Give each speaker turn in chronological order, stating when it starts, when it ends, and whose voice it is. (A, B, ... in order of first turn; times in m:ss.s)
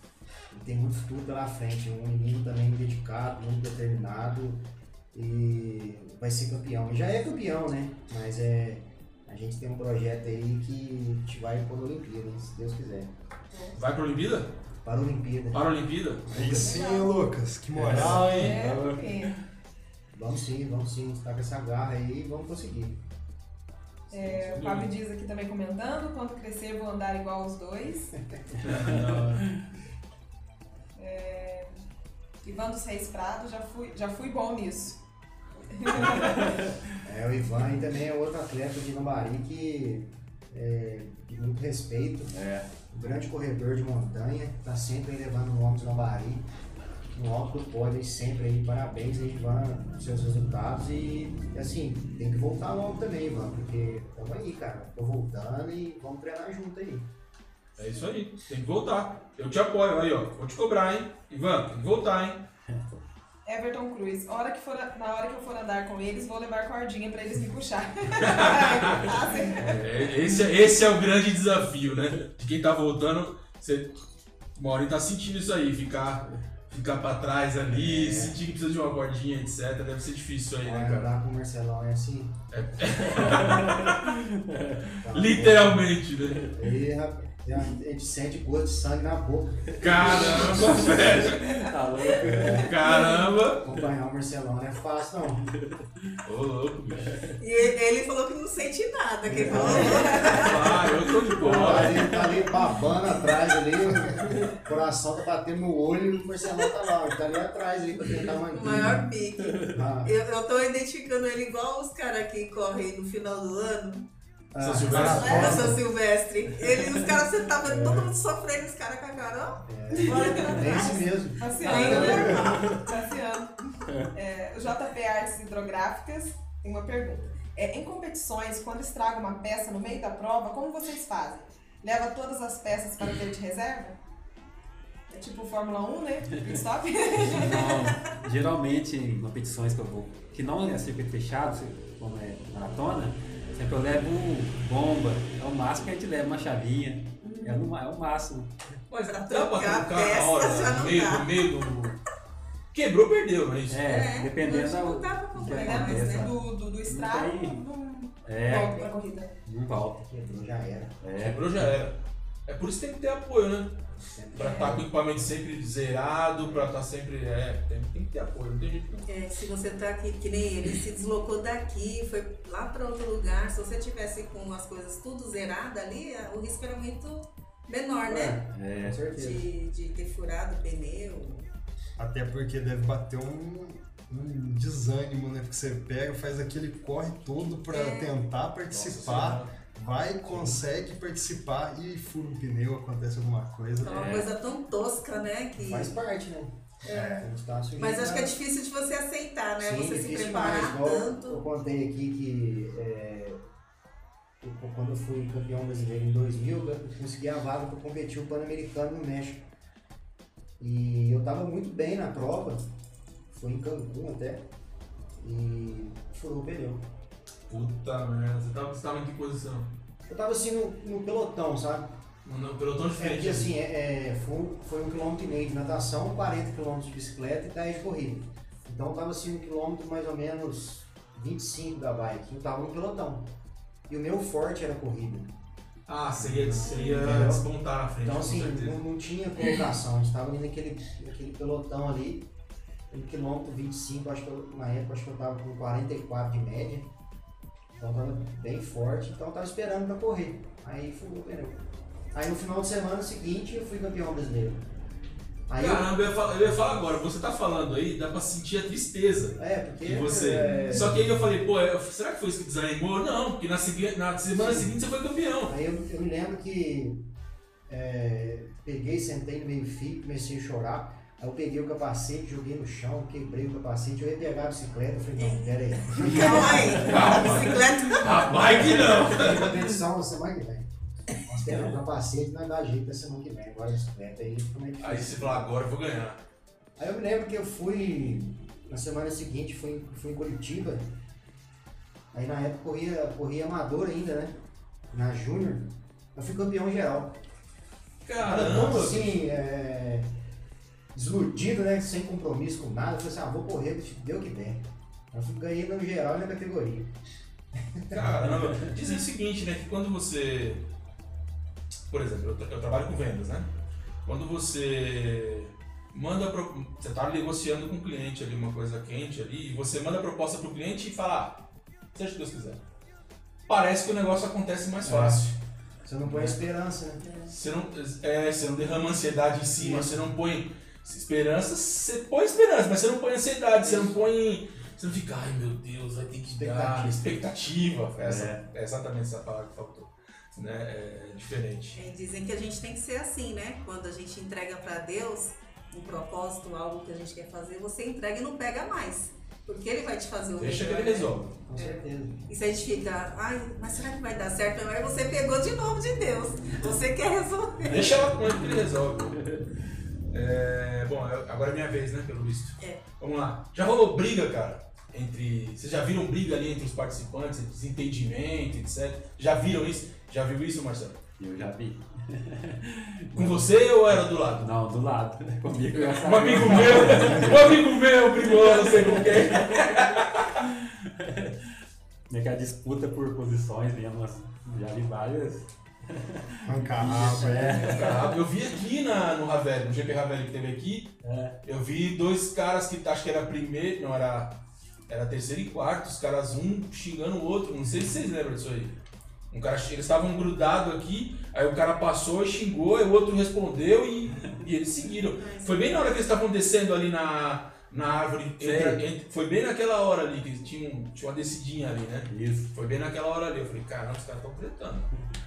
0:00.5-0:13.1 A
0:13.5-0:13.8 B
0:13.7-0:14.5 C
0:14.8-0:16.8 A
0:15.5-0:16.4 C
0:16.3-0:18.6 D
0:16.5-0:17.2 B
0:17.7-0:19.4 E
0:17.9-0:18.4 C
0:18.2-0:19.3 B
0:20.1-0:23.0 A
0:24.1-0:24.9 C
0:24.1-0:28.1 B
0:28.6-0:29.5 C
0:28.6-0:29.6 E
0:31.0-0:31.8 B
0:32.4-0:35.0 B
0:35.7-0:36.6 B
0:36.1-0:36.8 E
0:37.0-0:42.3 A
0:42.3-0:42.7 E
0:42.9-0:46.5 A
0:47.1-0:57.1 A
0:57.8-1:02.4 C
1:03.4-1:09.8 B
1:08.2-1:09.2 C
1:09.5-1:10.1 E
1:09.8-1:14.0 C
1:14.6-1:21.1 C
1:17.7-1:18.4 A
1:20.6-1:22.4 A
1:22.5-1:24.2 C
1:23.0-1:25.0 E
1:25.0-1:25.9 A
1:25.1-1:26.5 C
1:26.5-1:30.9 A
1:29.8-1:31.6 C
1:29.8-1:32.8 E
1:32.2-1:35.5 A
1:32.4-1:33.6 C
1:35.6-1:36.2 E
1:36.2-1:37.2 C
1:36.9-1:37.4 E
1:37.4-1:40.8 F
1:39.2-1:40.5 A
1:39.5-1:42.1 C
1:41.0-1:42.4 E
1:41.4-1:49.0 A
1:48.5-1:54.0 F
1:49.6-1:50.1 A
1:54.5-1:55.8 A
1:54.6-1:55.7 C
1:54.9-1:55.4 D
1:55.0-2:02.7 F
1:55.2-1:55.5 B
1:57.6-1:58.1 A
1:59.6-2:02.4 A
2:00.0-2:14.0 B
2:01.6-2:03.0 E
2:03.9-2:04.1 E
2:15.1-2:18.0 B
2:17.2-2:28.5 E
2:27.2-2:27.5 B
2:28.9-2:32.0 C
2:29.0-2:31.3 F
2:32.7-2:33.8 C
2:33.7-2:37.6 E
2:33.8-2:36.3 F
2:35.5-2:39.4 B
2:38.2-2:38.9 E
2:38.6-2:38.9 F
2:39.4-2:40.1 E
2:40.0-2:41.0 A
2:41.0-2:41.7 E
2:41.2-2:49.1 C
2:44.0-2:44.9 A
2:49.1-2:58.4 F
2:58.0-2:59.5 A
2:58.5-2:59.0 E
2:59.1-3:01.5 F
3:02.0-3:14.0 D
3:07.7-3:08.1 F
3:08.7-3:09.5 C
3:10.3-3:10.6 C
3:13.8-3:16.0 F
3:13.8-3:14.3 E
3:15.6-3:18.3 A
3:16.8-3:17.2 F
3:16.9-3:17.2 D
3:17.8-3:21.4 F
3:19.6-3:23.4 A
3:24.4-3:29.5 A
3:30.6-3:32.7 A
3:33.3-3:34.5 A
3:35.2-3:36.9 A
3:37.5-3:39.7 C
3:40.1-3:42.0 A
3:42.2-3:43.5 C
3:43.0-3:53.3 A
3:53.9-3:55.3 A
3:55.9-3:58.8 C
3:56.2-3:57.5 A
3:58.0-4:02.3 A
4:02.9-4:06.9 A
4:07.8-4:11.6 A
4:12.1-4:14.6 A
4:15.5-4:15.9 A
4:15.6-4:25.6 C
4:19.4-4:21.3 A
4:24.3-4:24.7 A
4:25.5-4:27.0 A
4:27.7-4:37.4 A
4:35.2-4:38.7 F
4:36.8-4:39.6 C
4:38.1-4:40.7 A
4:41.2-4:45.5 A
4:44.8-4:46.2 C
4:46.8-4:50.9 A
4:52.1-4:54.4 A
4:54.9-4:57.2 A
4:58.0-4:59.2 C
4:58.2-5:00.1 A
5:00.9-5:06.9 A
5:07.6-5:08.3 A
5:07.9-5:10.6 C
5:11.9-5:13.5 C
5:14.0-5:22.6 C
5:23.5-5:25.4 C
5:24.8-5:27.1 A
5:26.0-5:26.4 C
5:27.0-5:27.3 F
5:27.2-5:41.8 C
5:29.6-5:30.1 A
5:36.3-5:37.2 A
5:38.0-5:38.4 E
5:41.7-5:58.0 F
5:50.4-5:51.3 C
5:51.2-5:52.2 A
5:57.6-5:59.2 C
6:00.1-6:11.0 C
6:02.6-6:02.8 F
6:11.2-6:17.6 E
6:13.1-6:14.5 C
6:15.9-6:20.4 C
6:18.2-6:19.6 E
6:20.4-6:21.5 E
6:22.1-6:28.1 E
6:26.5-6:27.6 D
6:26.5-6:27.9 A
6:27.6-6:38.8 C
6:31.0-6:31.4 E
6:39.3-6:54.9 C
6:45.2-6:46.1 F
6:48.4-6:48.8 E
6:52.1-6:52.5 E